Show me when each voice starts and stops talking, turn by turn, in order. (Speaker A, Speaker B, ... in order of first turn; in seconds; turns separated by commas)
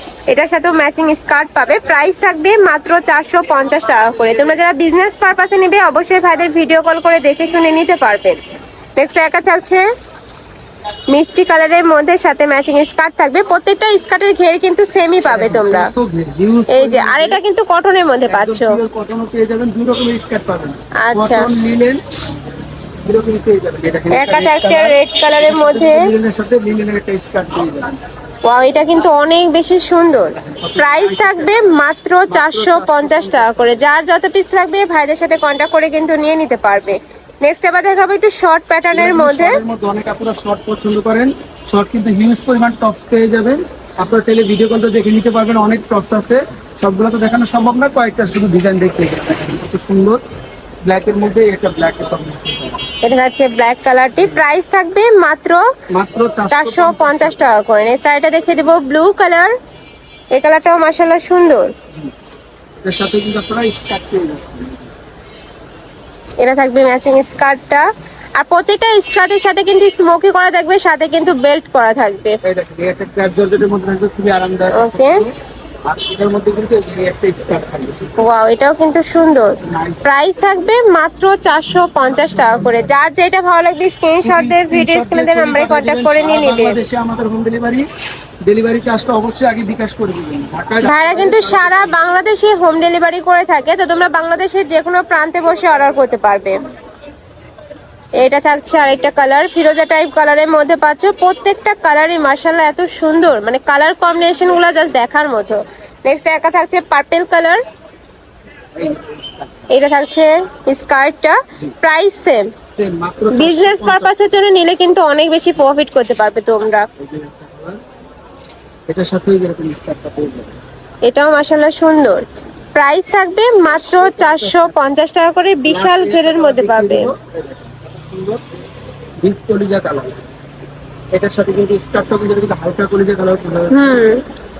Speaker A: 0.3-8.4, Speaker A: 8.9-9.9, Speaker A: 11.1-15.9, Speaker B: 15.2-17.4, Speaker A: 16.7-18.8, Speaker B: 18.3-22.0, Speaker A: 21.0-21.5, Speaker B: 23.0-28.0, Speaker A: 24.1-26.1, Speaker A: 28.4-39.6, Speaker B: 30.3-31.6, Speaker B: 32.3-33.8, Speaker B: 38.9-50.2, Speaker B: 50.8-52.9, Speaker A: 53.0-55.6, Speaker B: 55.9-57.4, Speaker A: 56.5-59.5, Speaker A: 60.3-61.7, Speaker B: 62.8-64.9, Speaker A: 66.4-72.4, Speaker B: 72.4-75.3, Speaker A: 74.7-75.2, Speaker B: 75.9-78.1, Speaker A: 78.2-86.8, Speaker B: 79.6-80.5, Speaker B: 82.1-82.9, Speaker B: 84.2-87.8, Speaker B: 88.5-92.0, Speaker A: 90.8-96.7, Speaker A: 98.2-107.6, Speaker B: 108.8-109.7, Speaker A: 109.7-112.5, Speaker B: 112.7-114.3, Speaker A: 113.3-116.9, Speaker B: 117.0-117.8, Speaker B: 118.9-120.6, Speaker A: 121.0-122.2, Speaker A: 122.7-127.1, Speaker B: 123.7-124.8, Speaker B: 125.7-128.5, Speaker B: 129.2-130.2, Speaker B: 131.1-134.0, Speaker A: 133.7-134.2